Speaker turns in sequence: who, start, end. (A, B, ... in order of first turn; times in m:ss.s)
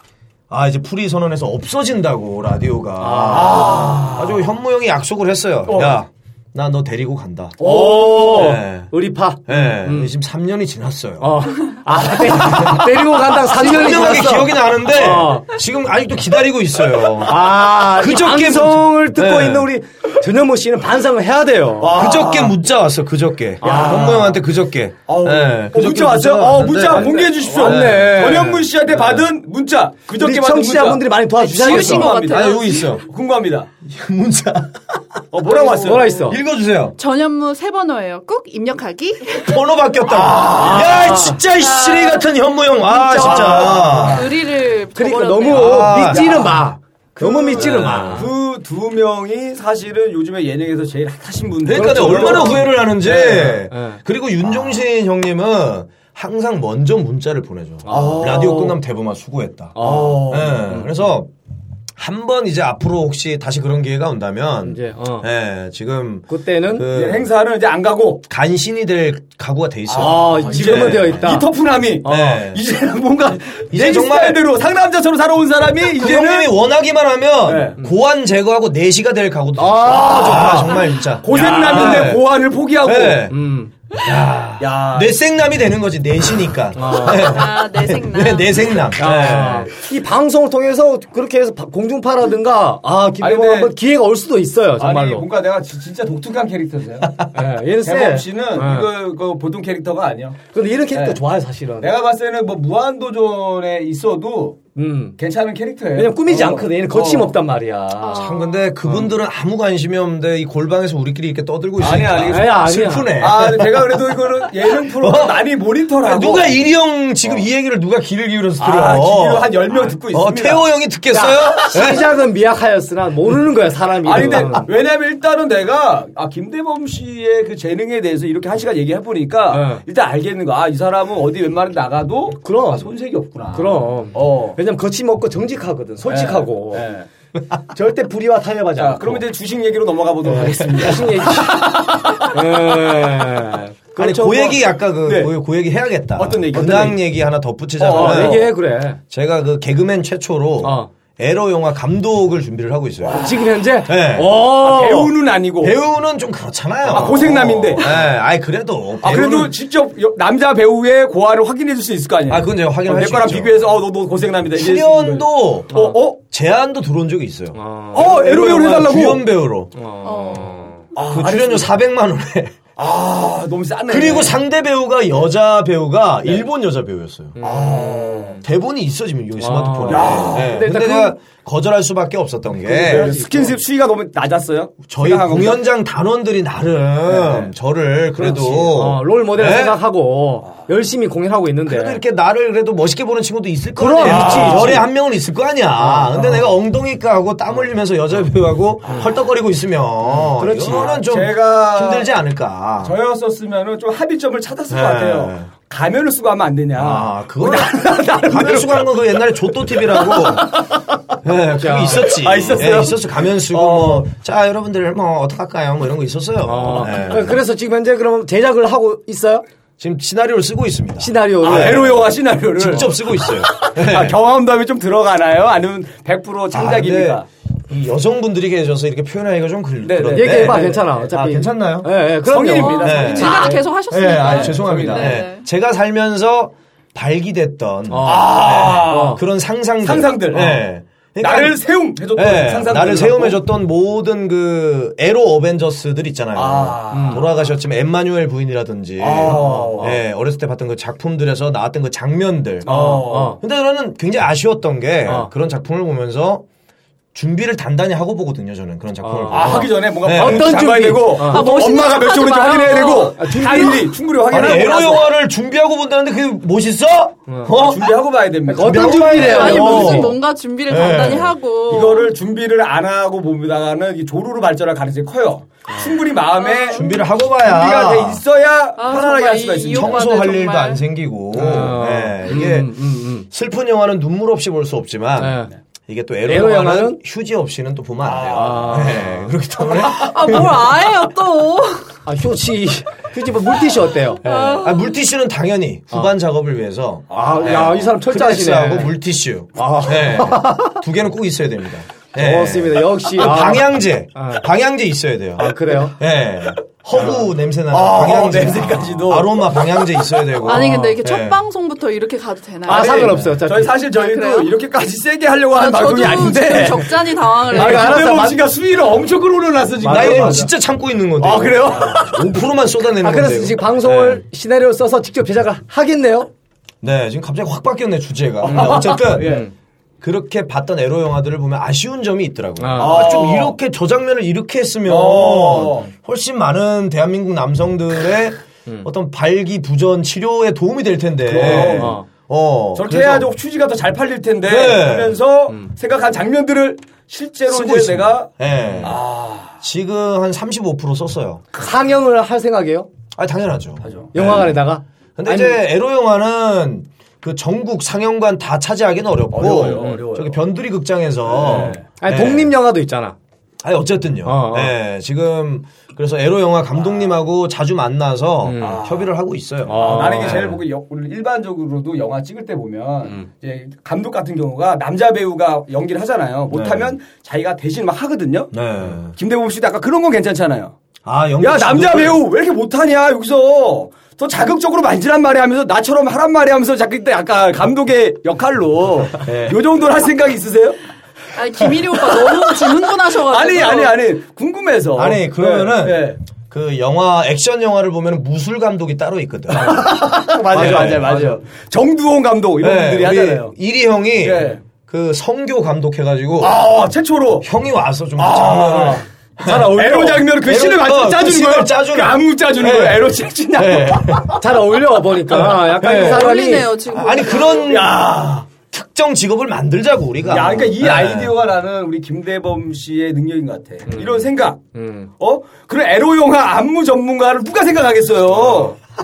0:00.5-0:08.9 A
0:03.0-0:03.8 B
0:03.3-0:04.5 C
0:05.7-0:06.0 C
0:07.6-0:08.6 C
0:07.6-0:10.1 B
0:09.4-0:19.7 A
0:11.2-0:15.5 B
0:17.2-0:22.0 B
0:21.8-0:22.5 C
0:21.9-0:28.3 A
0:23.6-0:24.3 B
0:23.6-0:24.4 C
0:25.1-0:33.7 C
0:26.8-0:29.2 B
0:30.1-0:32.1 B
0:31.5-0:33.0 D
0:32.2-0:33.0 A
0:33.8-0:37.0 A
0:35.3-0:36.3 C
0:35.8-0:36.4 B
0:37.0-0:39.6 D
0:39.4-0:44.3 A
0:40.1-0:41.1 C
0:40.4-0:41.4 B
0:42.9-0:43.8 B
0:43.2-0:44.4 C
0:43.3-0:46.1 D
0:44.9-0:48.3 B
0:45.5-0:46.4 A
0:45.9-0:46.6 C
0:47.2-0:53.6 C
0:47.5-0:48.3 A
0:51.6-1:01.3 A
0:51.7-0:52.6 B
0:53.7-0:54.0 B
0:57.8-0:58.4 B
0:57.9-0:58.8 C
0:59.8-1:00.9 B
0:59.8-1:00.7 C
1:02.0-1:07.3 A
1:04.6-1:05.3 B
1:06.3-1:06.9 B
1:06.9-1:08.2 C
1:08.3-1:11.3 A
1:09.9-1:16.5 C
1:10.0-1:11.5 B
1:12.0-1:12.6 A
1:13.7-1:14.4 A
1:15.9-1:22.3 A
1:17.4-1:17.8 C
1:19.6-1:20.7 B
1:19.8-1:23.3 C
1:21.3-1:22.2 B
1:22.8-1:23.4 A
1:23.3-1:23.7 B
1:23.9-1:29.7 A
1:24.6-1:25.1 C
1:26.8-1:27.4 B
1:27.0-1:28.8 D
1:29.0-1:35.2 B
1:33.2-1:33.7 C
1:34.8-1:37.2 C
1:37.3-1:38.9 B
1:37.8-1:40.4 C
1:40.5-1:41.9 B
1:40.9-1:41.2 C
1:41.8-1:44.6 C
1:44.8-1:45.1 B
1:45.2-1:47.3 C
1:46.0-1:48.2 B
1:48.0-1:48.7 D
1:48.1-1:55.4 A
1:51.8-1:52.6 C
1:52.3-1:53.2 B
1:53.2-1:56.6 C
1:56.0-2:02.1 A
1:58.6-2:00.6 C
2:01.1-2:04.7 B
2:04.0-2:14.6 C
2:09.5-2:09.8 B
2:12.4-2:12.9 B
2:13.5-2:16.9 B
2:16.0-2:17.0 C
2:17.7-2:19.2 B
2:18.8-2:21.7 C
2:20.3-2:24.6 B
2:24.0-2:28.5 A
2:25.0-2:25.3 C
2:26.2-2:27.0 C
2:27.8-2:28.5 C
2:27.9-2:29.0 B
2:29.1-2:33.3 A
2:30.6-2:30.9 B
2:33.0-2:33.5 C
2:33.1-2:35.1 B
2:33.8-2:34.3 A
2:34.4-2:35.8 C
2:35.6-2:39.5 A
2:36.9-2:37.9 C
2:36.9-2:37.2 B
2:39.0-2:46.2 C
2:42.3-2:43.6 A
2:44.5-2:49.7 A
2:45.7-2:46.0 B
2:47.6-2:48.1 B
2:47.9-2:49.2 C
2:49.8-2:50.8 B
2:50.0-2:50.6 D
2:50.9-2:51.7 C
2:51.1-2:52.6 A
2:52.8-2:54.4 C
2:53.9-2:57.4 A
2:57.4-2:58.2 B
2:57.4-2:58.4 C
2:58.4-3:03.1 A
2:59.4-3:01.2 B
2:59.9-3:00.5 C
3:02.6-3:03.5 B
3:02.8-3:05.6 C
3:04.9-3:09.8 A
3:07.1-3:07.5 C
3:08.2-3:08.5 C
3:08.2-3:12.0 B
3:11.7-3:23.0 A
3:13.8-3:14.9 B
3:14.0-3:14.8 C
3:15.8-3:16.5 B
3:20.2-3:22.1 C
3:20.4-3:21.0 B
3:22.8-3:28.9 C
3:24.7-3:25.5 A
3:26.8-3:37.4 A
3:30.5-3:30.9 B
3:31.6-3:32.2 B
3:31.9-3:34.0 C
3:36.4-3:39.4 B
3:39.8-3:44.2 A
3:41.0-3:42.0 B
3:41.4-3:47.3 C
3:46.5-3:51.9 A
3:49.8-3:50.9 C
3:50.1-3:53.6 B
3:52.2-3:55.2 C
3:52.6-3:55.4 D
3:52.8-4:01.6 A
3:57.9-3:59.2 B
3:58.0-3:59.2 C
3:59.8-4:00.6 C
4:01.2-4:03.4 C
4:02.1-4:16.4 A
4:06.3-4:07.3 C
4:06.9-4:07.2 B
4:09.0-4:09.9 C
4:09.3-4:09.9 B
4:12.6-4:13.4 C
4:12.6-4:13.4 B
4:17.1-4:20.7 A
4:19.0-4:21.7 B
4:19.3-4:25.1 C
4:21.2-4:23.4 D
4:23.2-4:23.9 B
4:24.3-4:28.0 A
4:27.5-4:29.7 C
4:28.5-4:30.1 B
4:28.6-4:31.3 A
4:29.0-4:32.1 D
4:31.7-4:40.1 C
4:36.3-4:37.1 D
4:36.7-4:38.2 A
4:38.8-4:40.8 D
4:39.7-4:50.8 A
4:41.3-4:43.3 B
4:45.2-4:45.5 B
4:46.2-4:47.0 B
4:48.0-4:49.0 C
4:48.3-4:49.2 B
4:49.8-4:52.0 D
4:52.0-4:54.2 B
4:54.2-4:55.0 D
4:54.2-5:11.4 A
4:57.1-4:58.9 B
4:57.1-4:57.8 C
4:59.6-5:00.8 B
5:02.2-5:04.4 B
5:05.4-5:05.9 B
5:06.9-5:09.9 C
5:10.4-5:13.2 D
5:10.5-5:11.0 B
5:12.6-5:13.8 B
5:12.7-5:20.5 C
5:13.9-5:14.5 D
5:15.5-5:18.2 D
5:17.5-5:18.4 B
5:19.8-5:20.5 B
5:19.9-5:24.2 A
5:21.2-5:22.2 C
5:23.0-5:26.3 B
5:26.8-5:29.4 A
5:28.4-5:29.5 C
5:28.5-5:29.5 B
5:30.0-5:43.3 A
5:32.6-5:33.1 B
5:32.8-5:33.6 C
5:34.8-5:35.9 C
5:41.3-5:42.0 C
5:41.3-5:42.0 B
5:42.7-5:48.3 C
5:44.4-5:45.2 A
5:47.5-5:49.0 A
5:48.8-5:49.6 C
5:49.6-5:51.4 A
5:51.5-5:52.9 B
5:53.2-5:54.6 A
5:53.8-5:54.1 C
5:54.1-5:55.6 B
5:55.2-6:02.6 A
5:59.3-6:00.4 C
6:01.3-6:01.8 C
6:02.0-6:03.2 B
6:03.6-6:10.6 A
6:04.2-6:04.8 B
6:08.4-6:08.8 B
6:08.6-6:09.1 C
6:09.7-6:10.5 B
6:09.7-6:20.7 C
6:16.5-6:16.9 A
6:18.5-6:19.1 A
6:21.0-6:22.2 A
6:21.4-6:30.8 C
6:29.2-6:29.6 A
6:31.3-6:34.0 D
6:33.1-6:36.2 C
6:34.9-6:39.9 A
6:39.5-6:43.5 C
6:39.8-6:41.4 B
6:40.5-6:41.1 A
6:42.6-6:46.6 A
6:44.2-6:44.6 C
6:46.4-6:47.5 C
6:47.4-6:54.4 A
6:48.2-6:54.3 C
6:49.4-6:50.2 B
6:54.4-6:56.7 B
6:55.3-6:58.1 A
6:55.8-6:57.8 D
6:57.5-6:58.5 C
6:58.7-7:01.4 A
7:00.2-7:04.6 C
7:03.9-7:04.2 B
7:04.7-7:05.1 B
7:05.2-7:08.8 C